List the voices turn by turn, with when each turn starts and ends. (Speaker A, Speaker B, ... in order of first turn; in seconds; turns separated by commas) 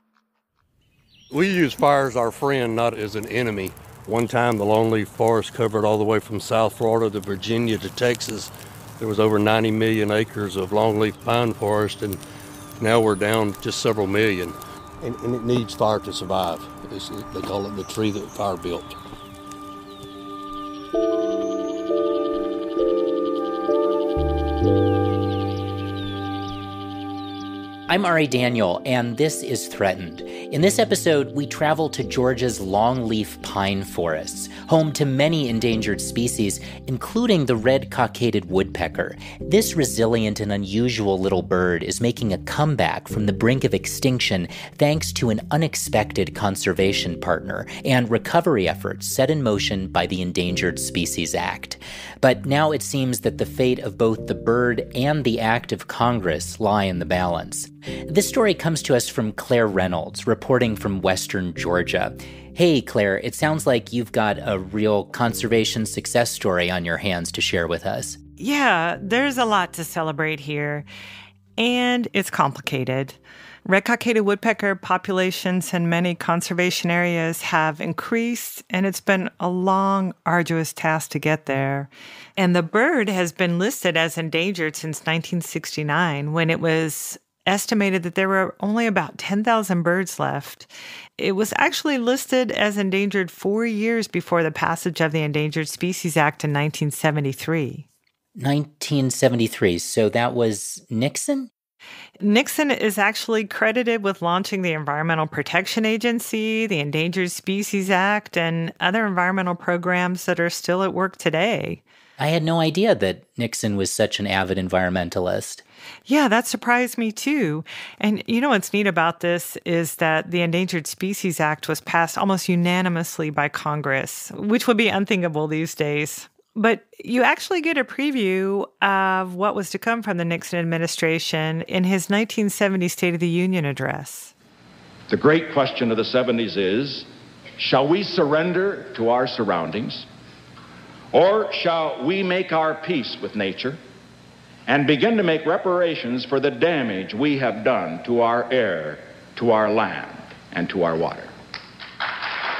Speaker A: 1.3-12.2, Speaker A: 12.8-19.0, Speaker B: 27.9-68.2, Speaker C: 68.4-70.8, Speaker C: 71.6-97.8, Speaker B: 98.3-101.5, Speaker C: 102.2-111.8, Speaker B: 112.2-115.6, Speaker C: 116.1-134.3, Speaker D: 135.1-140.1, Speaker D: 141.1-143.8, Speaker D: 144.7-151.3